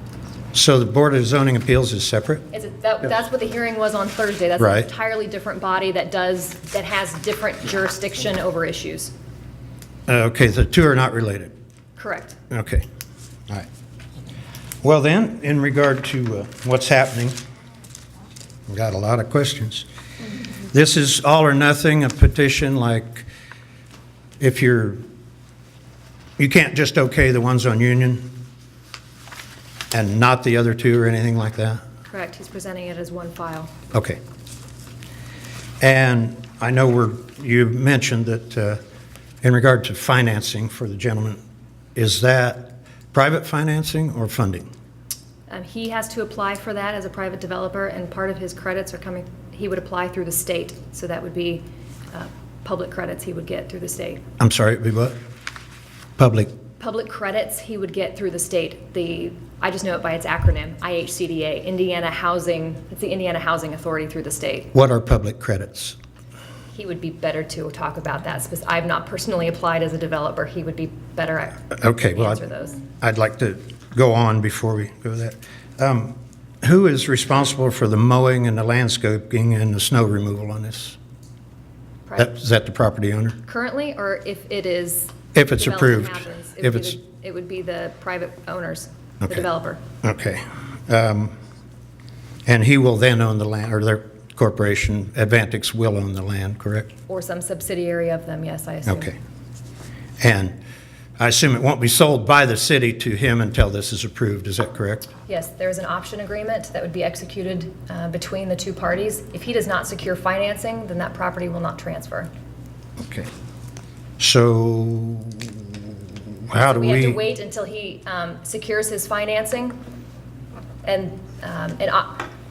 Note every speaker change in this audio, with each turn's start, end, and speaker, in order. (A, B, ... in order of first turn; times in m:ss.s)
0:00.5-0:02.4 A
0:02.5-0:09.1 B
0:04.6-0:04.9 A
0:10.1-0:11.5 A
0:12.0-0:12.4 B
0:12.5-0:12.8 A
0:14.8-0:17.4 A
0:18.7-0:19.8 A
0:20.7-0:23.3 A
0:24.4-0:25.0 A
0:26.4-0:28.2 A
0:29.9-0:31.8 A
0:32.1-0:33.7 B
0:33.9-0:34.2 A
0:35.8-0:38.8 A
0:39.4-0:41.4 A
0:42.0-0:44.6 A
0:45.5-0:54.2 B
0:54.4-0:55.1 A
0:56.2-0:56.5 A
0:56.8-1:04.7 B
1:04.7-1:06.0 A
1:06.7-1:12.8 B
1:11.8-1:12.4 A
1:13.0-1:21.0 A
1:22.2-1:23.4 A
1:23.4-1:29.8 B
1:25.3-1:27.0 A
1:30.0-1:31.3 A
1:32.4-1:36.9 A
1:37.1-1:39.1 B
1:38.8-1:39.1 A
1:40.2-1:40.5 A
1:41.2-1:45.1 A
1:45.3-1:52.3 B
1:53.0-1:53.3 A
1:54.2-1:55.7 A
1:56.5-1:57.2 A
1:56.7-1:59.7 B
2:00.8-2:02.3 B